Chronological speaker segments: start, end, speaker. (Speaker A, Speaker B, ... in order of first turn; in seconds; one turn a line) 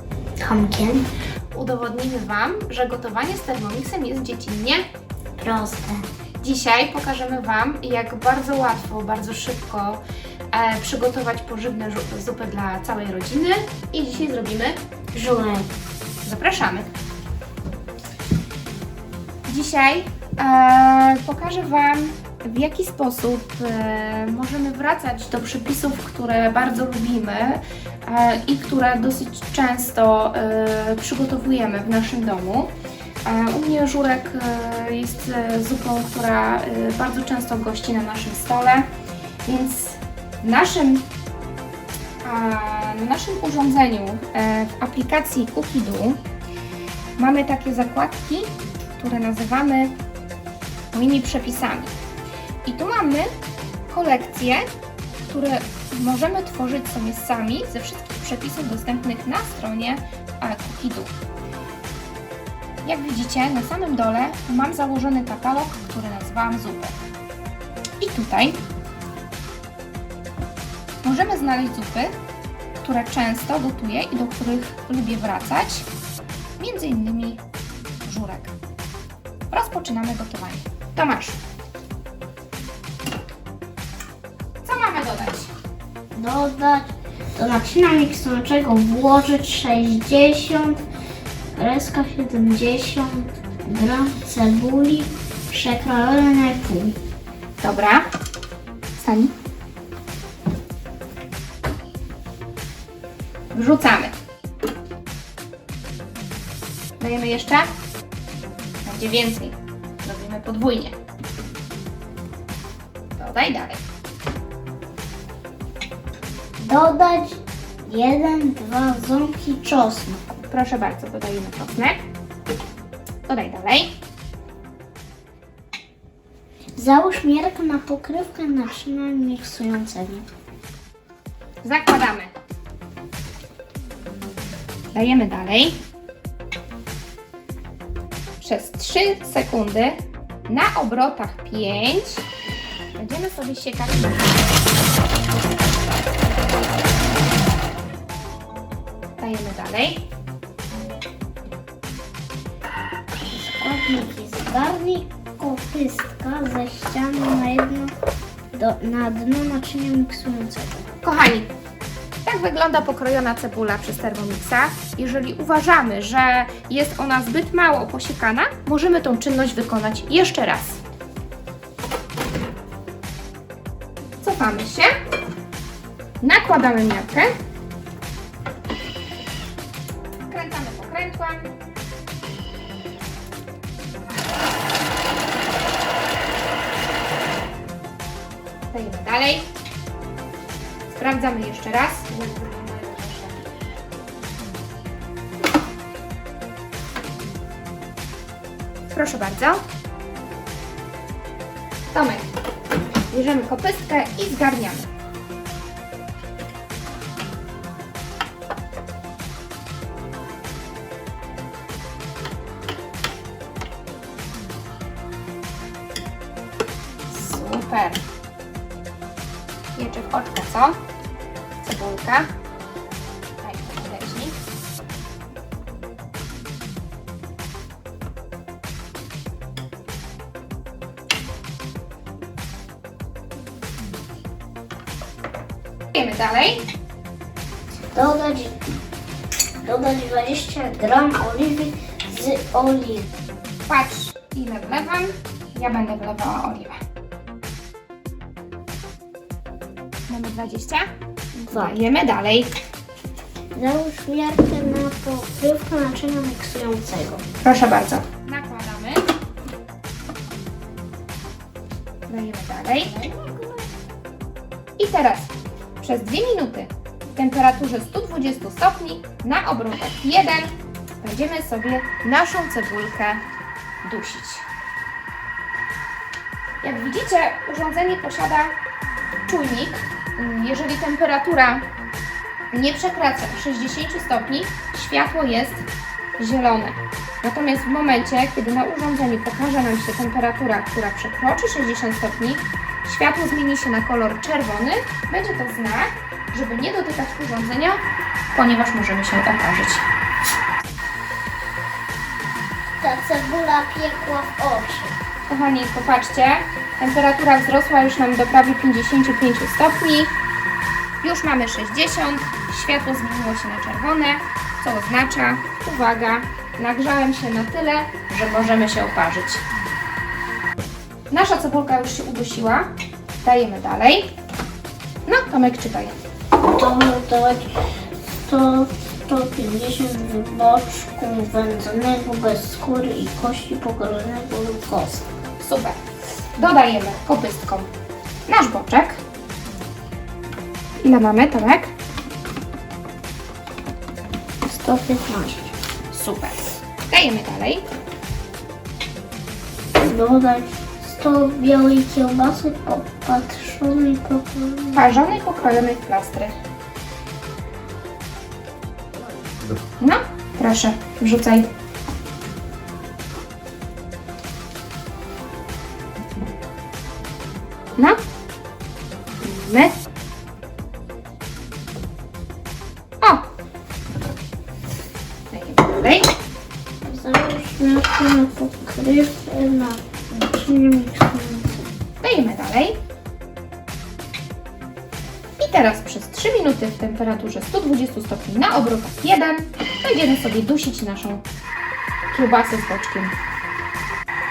Speaker A: 0.4-1.1
Speaker B: 1.5-4.8
Speaker A: 5.4-6.0
Speaker B: 6.4-10.0
Speaker B: 10.5-14.8
Speaker A: 15.1-15.7
Speaker B: 16.2-16.9
Speaker B: 19.5-32.7
Speaker B: 33.2-38.9
Speaker B: 39.5-41.1
Speaker B: 42.2-46.2
Speaker B: 47.2-50.0
Speaker B: 50.9-51.9
Speaker B: 52.6-53.3
Speaker B: 53.9-54.6
Speaker B: 55.3-61.1
Speaker B: 62.9-67.0
Speaker B: 68.0-68.6
Speaker B: 71.0-72.1
Speaker B: 72.8-75.9
Speaker B: 76.6-77.4
Speaker B: 78.0-78.5
Speaker B: 79.5-81.4
Speaker B: 84.6-85.5
Speaker A: 86.1-90.8
Speaker A: 91.5-97.0
Speaker B: 97.6-98.1
Speaker B: 99.0-99.3
Speaker B: 103.5-104.1
Speaker B: 107.0-107.7
Speaker B: 108.8-110.9
Speaker B: 113.2-113.8
Speaker A: 116.6-120.3
Speaker B: 120.4-122.0
Speaker B: 123.3-123.9
Speaker A: 126.8-130.3
Speaker B: 131.6-132.3
Speaker B: 134.9-135.8
Speaker B: 138.4-142.3
Speaker B: 143.0-144.4
Speaker B: 149.2-150.1
Speaker A: 153.3-157.9
Speaker A: 158.5-160.9
Speaker B: 161.0-161.5
Speaker B: 162.2-170.8
Speaker B: 174.2-174.9
Speaker B: 176.2-177.3
Speaker B: 180.3-181.5
Speaker B: 188.7-189.5
Speaker B: 190.9-193.6
Speaker B: 198.9-199.6
Speaker B: 201.9-202.3
Speaker B: 203.1-204.9
Speaker B: 217.1-218.0
Speaker B: 219.8-220.8
Speaker B: 221.6-222.3
Speaker B: 223.4-224.4
Speaker B: 235.9-236.7
Speaker A: 237.9-238.6
Speaker A: 239.6-243.1
Speaker B: 243.7-246.8
Speaker B: 250.1-250.9
Speaker A: 251.4-251.8
Speaker B: 251.5-252.5
Speaker A: 253.5-257.3
Speaker B: 257.4-259.1
Speaker B: 262.1-262.9
Speaker A: 262.9-263.7
Speaker B: 264.8-273.2
Speaker B: 273.8-274.5
Speaker B: 276.6-278.5
Speaker B: 279.3-281.6
Speaker B: 282.5-285.6
Speaker B: 286.2-297.8
Speaker B: 298.3-299.9
Speaker A: 302.8-305.0
Speaker B: 305.3-310.1
Speaker B: 311.0-319.4
Speaker B: 321.1-322.7
Speaker B: 323.2-324.1
Speaker B: 325.1-325.9
Speaker A: 326.4-327.6
Speaker A: 328.2-335.1
Speaker B: 335.4-335.8
Speaker B: 336.4-337.7
Speaker B: 338.3-339.0
Speaker B: 340.8-341.7
Speaker A: 344.4-345.5
Speaker B: 345.9-346.4
Speaker B: 346.9-347.6
Speaker A: 349.8-354.9
Speaker B: 354.8-356.4
Speaker B: 359.8-361.5
Speaker B: 369.2-369.7
Speaker B: 373.0-373.3
Speaker B: 375.3-376.1
Speaker A: 376.8-381.6
Speaker B: 382.0-382.8
Speaker B: 385.4-391.2
Speaker B: 392.1-393.1